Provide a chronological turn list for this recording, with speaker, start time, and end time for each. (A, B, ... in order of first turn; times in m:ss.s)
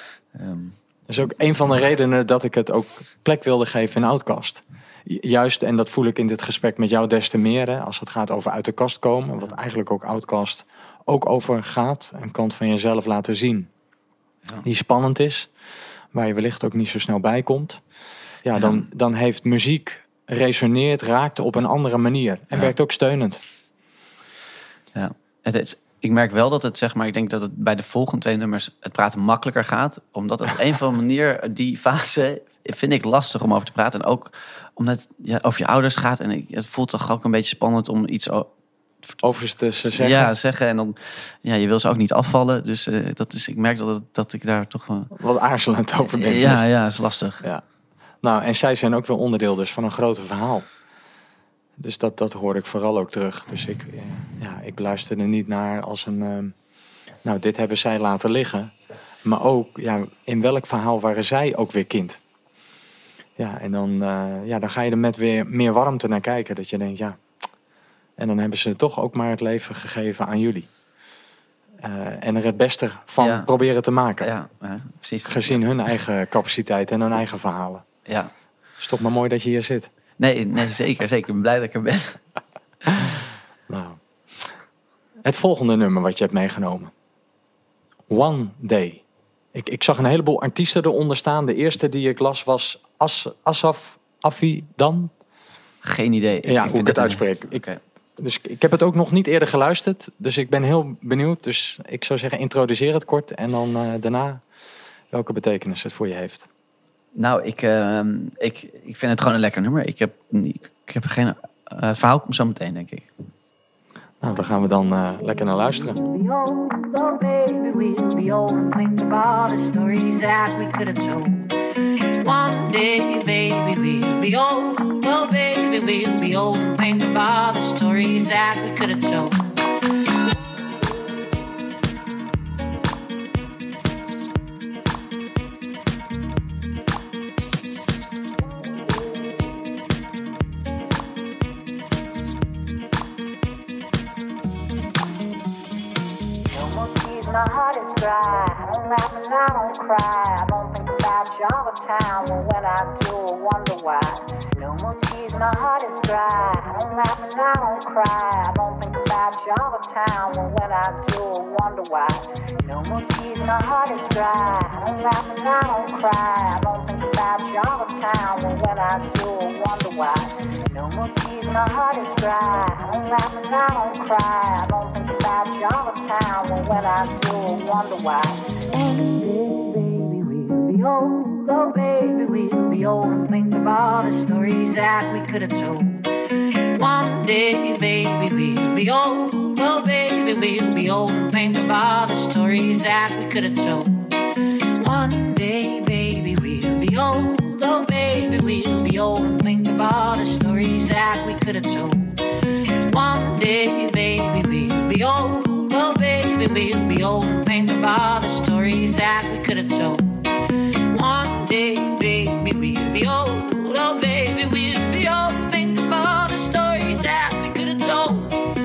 0:00.3-0:00.8 A
0:01.1-0:13.7 B
0:14.6-0:15.5 B
0:16.1-0:17.8 B
0:18.4-0:23.4 B
0:18.5-0:18.8 A
0:24.9-0:38.5 A
0:39.2-0:40.3 B
0:39.8-0:45.1 A
0:45.1-0:46.6 B
0:46.1-0:47.4 A
0:48.2-0:50.6 B
0:51.8-0:56.5 B
0:57.2-0:58.7 B
0:59.2-1:02.2 B
1:03.4-1:07.2 B
1:08.2-1:10.7 B
1:11.8-1:14.3 B
1:13.2-1:13.5 A
1:14.2-1:15.6 A
1:15.2-1:17.8 B
1:18.0-1:18.3 A
1:18.8-1:19.9 B
1:20.2-1:22.2 A
1:22.9-1:23.1 A
1:23.7-1:24.5 B
1:25.2-1:26.9 B
1:28.1-1:29.0 B
1:29.5-1:35.1 B
1:35.8-1:37.8 A
1:36.4-1:37.6 B
1:38.2-1:44.4 B
1:45.1-1:46.5 B
1:47.1-1:53.1 A
1:54.2-1:56.0 B
1:55.8-2:01.5 C
2:02.2-2:09.5 C
2:26.5-3:06.1 C
3:06.7-3:14.1 C
3:14.8-3:22.2 C
3:22.9-3:38.4 C